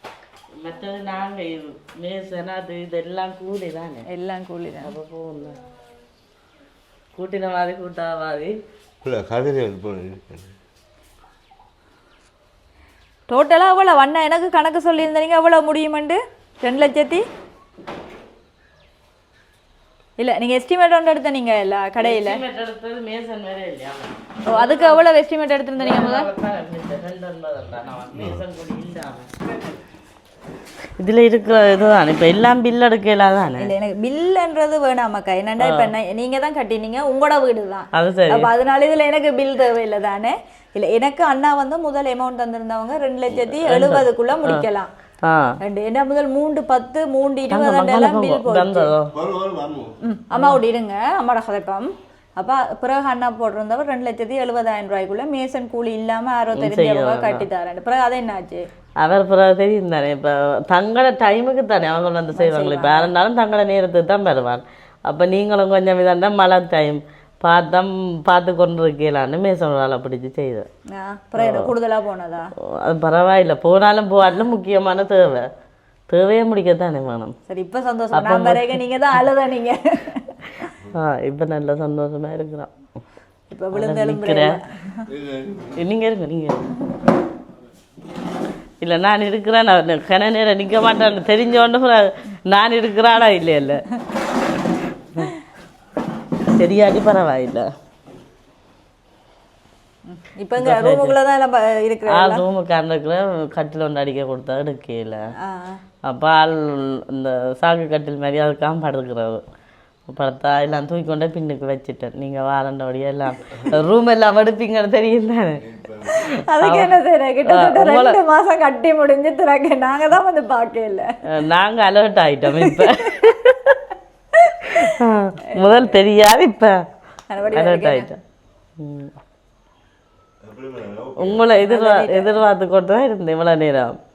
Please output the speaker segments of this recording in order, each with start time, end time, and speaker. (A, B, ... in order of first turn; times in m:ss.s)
0:00.6-0:04.0 A
0:04.1-0:04.9 B
0:04.8-0:05.6 A
0:07.1-0:08.5 A
0:09.0-0:10.6 C
0:13.3-0:17.2 B
0:20.2-0:22.4 B
0:22.0-0:25.0 A
0:24.5-0:26.3 B
0:25.8-0:29.3 A
0:28.1-0:28.4 C
0:31.0-0:33.7 A
0:33.6-0:44.9 B
0:35.6-0:35.9 A
0:37.9-0:38.5 A
0:43.4-0:44.6 A
0:45.2-0:45.6 A
0:45.6-0:48.9 B
0:47.5-0:49.1 A
0:49.1-0:49.9 C
0:50.0-0:58.6 B
0:56.5-0:57.4 A
0:59.0-1:10.6 A
1:02.3-1:03.1 B
1:10.9-1:12.5 B
1:11.4-1:11.7 A
1:12.6-1:15.5 A
1:16.1-1:17.3 A
1:17.5-1:20.7 B
1:18.1-1:18.8 A
1:20.9-1:22.7 A
1:23.5-1:25.0 B
1:23.7-1:24.6 A
1:25.1-1:25.8 C
1:25.8-1:26.7 A
1:28.8-1:33.8 A
1:36.5-1:37.7 A
1:40.1-1:42.4 B
1:40.6-1:41.2 A
1:42.1-1:45.3 A
1:45.4-1:45.8 B
1:46.0-1:49.4 A
1:50.1-1:55.6 A
1:55.6-1:56.3 C
1:56.2-1:58.2 A
1:56.5-2:01.1 B
2:01.3-2:03.8 A
2:02.6-2:03.3 B
2:04.3-2:04.9 B
2:04.7-2:06.8 A
2:05.4-2:05.9 B
2:07.3-2:08.1 B
2:07.5-2:08.2 A
2:08.8-2:09.1 A
2:10.4-2:11.5 C
2:11.2-2:14.0 A
2:11.6-2:12.4 B